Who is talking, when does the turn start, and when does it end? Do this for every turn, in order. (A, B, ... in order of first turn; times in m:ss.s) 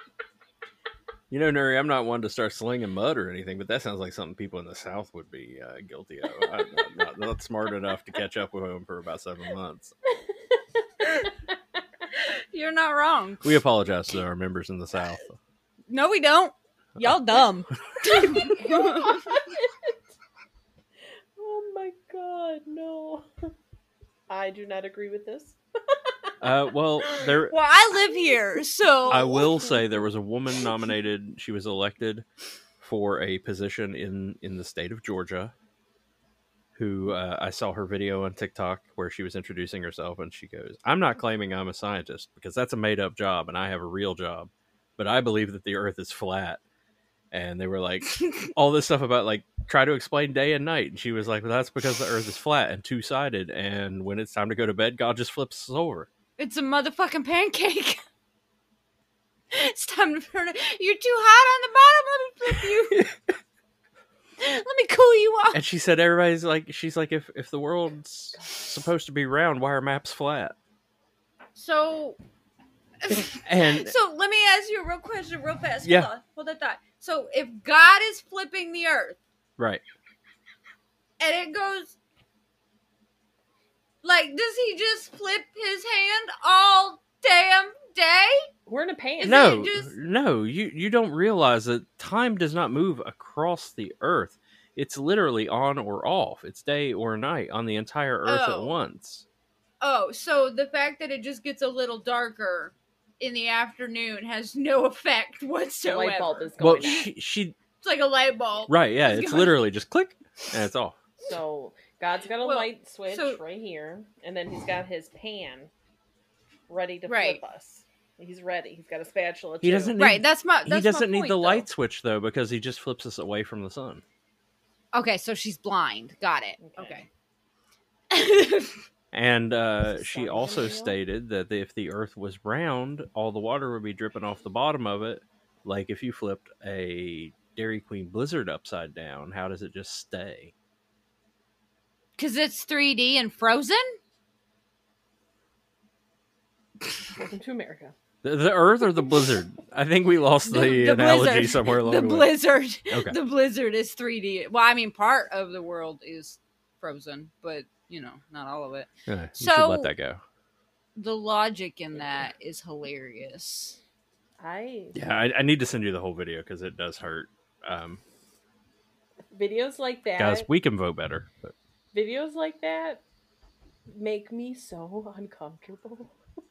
0:01.3-0:09.9 A
0:12.1-0:13.5 B
0:13.4-0:15.4 A
0:15.9-0:19.3 B
0:18.2-0:19.9 C
0:21.4-0:23.5 C
0:24.3-0:26.3 C
0:26.4-0:27.6 A
0:27.0-0:29.5 B
0:29.1-0:32.2 A
0:29.3-0:29.8 C
0:32.8-0:35.5 A
0:36.7-0:46.6 A
0:47.3-0:56.1 A
0:56.4-0:58.0 B
0:59.5-1:03.1 B
1:04.4-1:05.6 B
1:05.5-1:10.6 A
1:11.6-1:12.2 B
1:13.0-1:19.2 B
1:13.3-1:13.9 A
1:15.8-1:16.1 A
1:19.6-1:19.8 A
1:21.2-1:22.0 B
1:24.0-1:28.5 B
1:28.7-1:29.4 C
1:29.2-1:29.9 B
1:29.2-1:39.2 A
1:38.2-1:38.8 B
1:39.8-1:47.0 B
1:45.8-1:47.1 C
1:46.6-1:47.6 A
1:47.8-1:49.6 B
1:48.7-1:51.0 A
1:51.2-1:55.7 C
1:52.4-1:53.4 B
1:56.7-1:59.9 C
1:57.1-1:57.4 B
1:59.6-2:04.0 A
2:00.0-2:01.6 B
2:04.9-2:07.1 B
2:06.6-2:07.0 C
2:08.1-2:08.8 B
2:09.1-2:20.5 A
2:10.0-2:11.0 C
2:22.2-2:24.0 B
2:27.1-2:27.9 C
2:28.2-2:32.3 A
2:30.4-2:39.9 B
2:32.9-2:33.2 A
2:39.1-2:40.2 A
2:41.0-2:43.8 B
2:44.4-2:45.0 C
2:44.9-2:48.0 A
2:49.3-2:50.5 C
2:50.2-2:51.5 A
2:51.9-2:53.0 C
2:53.9-2:56.2 C